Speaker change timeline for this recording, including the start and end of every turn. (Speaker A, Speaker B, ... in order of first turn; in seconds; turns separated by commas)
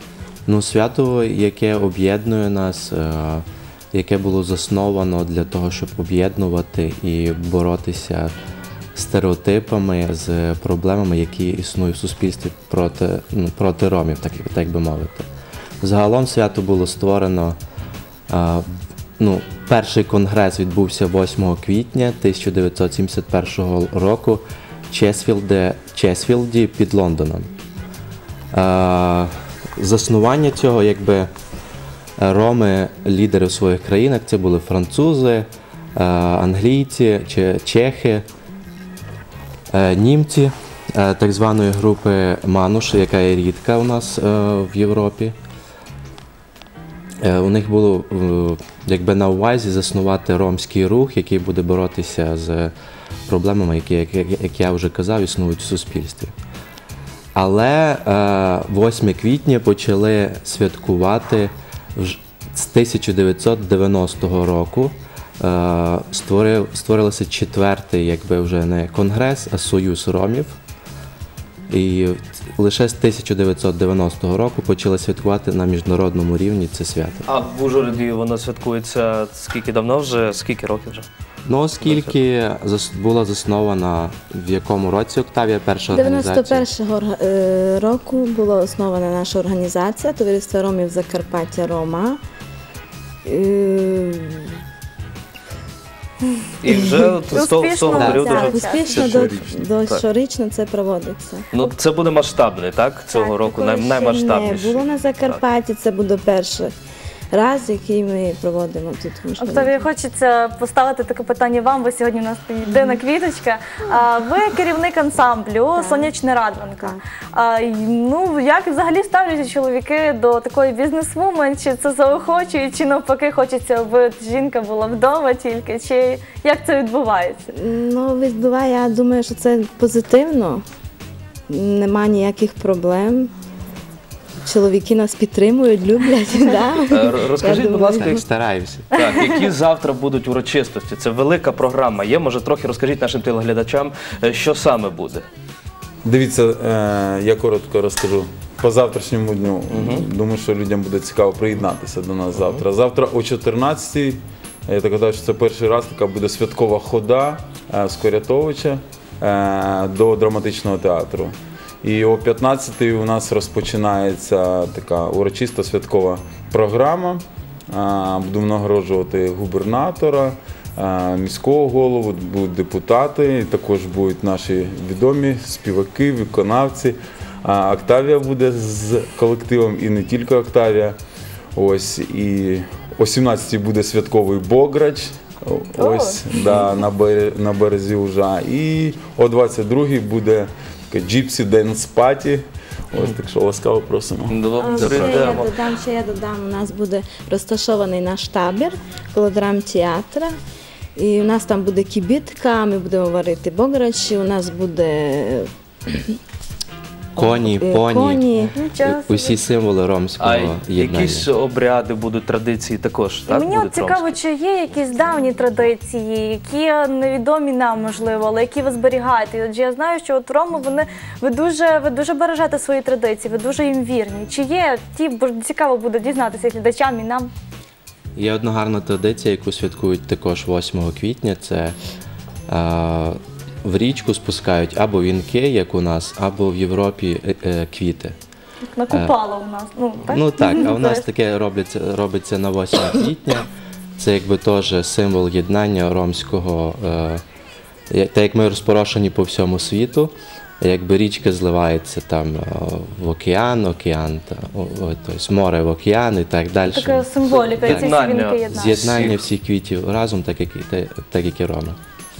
Speaker A: 0.5-8.3, Speaker A: 9.0-15.3, Speaker A: 15.8-17.6, Speaker A: 18.3-18.7, Speaker A: 19.2-27.5, Speaker A: 28.5-31.3, Speaker A: 32.2-38.3, Speaker A: 39.7-45.4, Speaker A: 47.2-52.7, Speaker A: 53.3-56.3, Speaker A: 57.4-70.6, Speaker A: 71.7-77.3, Speaker B: 77.3-81.1, Speaker A: 81.5-86.7, Speaker B: 81.8-82.1, Speaker C: 85.9-92.2, Speaker C: 93.2-94.5, Speaker B: 96.6-100.0, Speaker C: 96.7-97.0, Speaker D: 97.3-99.0, Speaker A: 98.0-98.3, Speaker C: 98.1-101.5, Speaker E: 98.9-99.5, Speaker B: 101.5-105.4, Speaker C: 103.1-106.7, Speaker C: 107.3-109.8, Speaker D: 109.4-127.5, Speaker C: 112.7-113.0, Speaker C: 115.8-116.2, Speaker C: 127.5-130.6, Speaker C: 131.5-133.3, Speaker C: 134.4-138.2, Speaker B: 136.9-138.2, Speaker A: 138.0-138.9, Speaker B: 138.9-145.2, Speaker E: 146.0-180.9, Speaker B: 149.7-150.1, Speaker B: 152.4-152.6, Speaker E: 181.6-195.1, Speaker D: 185.8-186.2, Speaker B: 194.3-195.5, Speaker C: 194.6-200.3, Speaker C: 201.0-206.2, Speaker C: 207.2-208.6, Speaker A: 207.2-208.2, Speaker D: 208.5-209.4, Speaker A: 208.8-211.3, Speaker B: 210.2-214.2, Speaker D: 213.3-227.3, Speaker A: 228.2-231.8, Speaker A: 232.5-238.2, Speaker D: 238.7-241.1, Speaker A: 240.1-243.5, Speaker A: 244.0-247.2, Speaker A: 247.9-257.9, Speaker D: 256.7-259.0, Speaker B: 257.3-259.2, Speaker A: 258.5-261.8